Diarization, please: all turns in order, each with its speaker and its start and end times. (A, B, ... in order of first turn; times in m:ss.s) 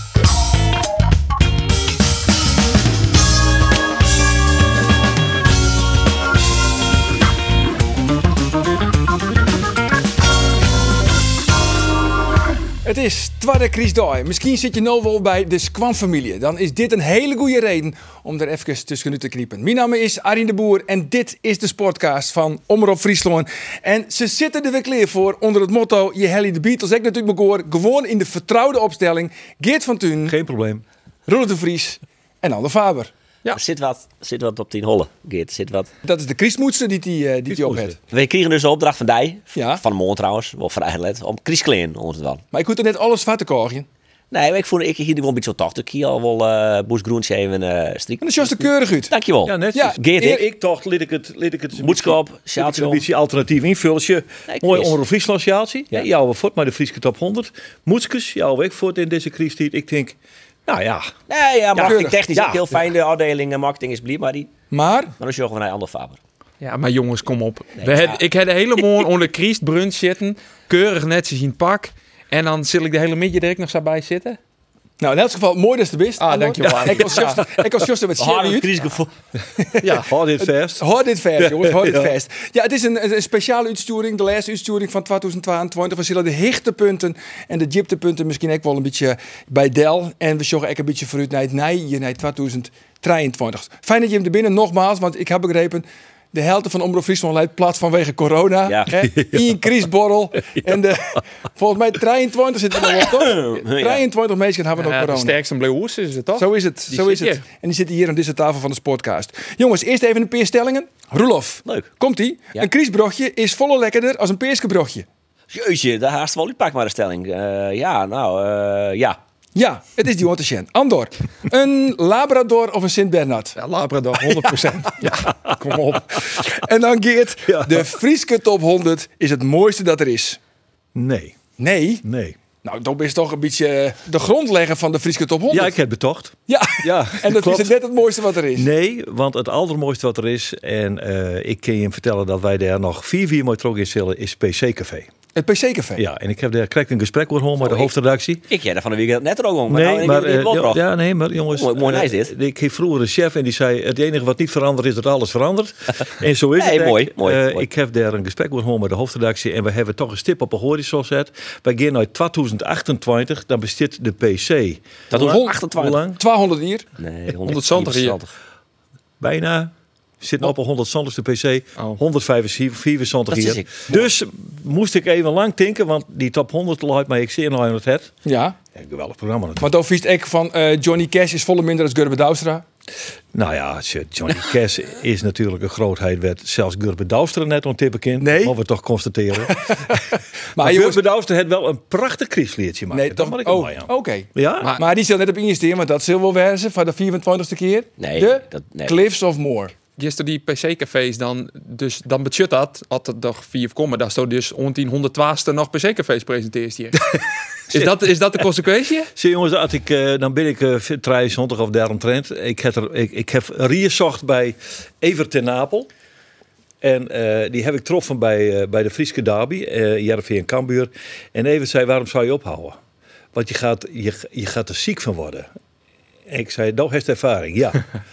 0:12.8-0:30.4 A
0:30.2-0:30.8 B
0:31.3-0:33.1 A
0:33.5-0:35.9 C
0:36.0-0:38.0 A
0:37.5-0:38.0 B
0:38.1-0:42.4 C
0:39.6-0:39.8 A
0:42.5-0:43.9 A
0:44.3-0:50.4 C
0:48.2-0:49.1 A
0:49.4-1:01.1 B
0:49.7-0:50.4 A
0:51.8-0:53.0 C
0:54.5-0:55.0 C
1:01.3-1:04.5 C
1:01.8-1:02.6 B
1:01.8-1:02.1 A
1:04.7-1:05.1 A
1:05.2-1:06.2 C
1:06.6-1:14.4 D
1:07.8-1:08.2 C
1:15.0-1:18.7 A
1:16.2-1:17.4 D
1:18.2-1:19.1 C
1:19.6-1:20.1 A
1:19.8-1:20.8 B
1:20.8-1:45.4 A
1:21.4-1:22.1 B
1:38.6-1:38.9 C
1:39.0-1:39.6 B
1:42.9-1:44.0 C
1:44.8-1:47.4 D
1:46.4-1:55.0 A
1:51.6-1:51.9 C
1:55.5-1:59.2 C
1:59.6-2:03.6 A
2:03.6-2:06.2 D
2:05.0-2:05.5 B
2:06.3-2:10.4 A
2:07.5-2:08.0 B
2:11.0-2:11.4 B
2:11.6-2:12.0 A
2:12.0-2:12.4 B
2:12.6-2:15.7 A
2:15.5-2:17.8 B
2:16.5-2:18.7 A
2:18.5-2:25.1 B
2:25.4-2:26.0 A
2:26.0-2:28.4 B
2:27.6-2:27.9 C
2:28.5-2:30.8 C
2:29.7-2:46.2 B
2:31.5-2:32.3 C
2:36.6-2:37.6 C
2:45.1-2:46.0 C
2:45.2-2:45.5 A
2:46.1-2:46.9 A
2:47.0-2:48.3 C
2:47.5-2:48.2 D
2:49.2-2:58.1 B
2:53.3-2:54.1 C
2:58.2-2:58.6 A
2:58.8-2:59.7 B
2:59.6-3:02.6 A
3:03.3-3:10.0 B
3:08.2-3:08.5 A
3:09.5-3:10.0 A
3:10.6-3:11.0 A
3:10.6-3:14.7 B
3:12.9-3:19.7 A
3:18.0-3:19.0 C
3:20.0-3:27.1 D
3:27.7-3:29.1 D
3:27.7-3:28.1 B
3:29.2-3:35.9 B
3:36.8-3:42.8 B
3:43.3-3:45.5 B
3:46.3-3:47.9 B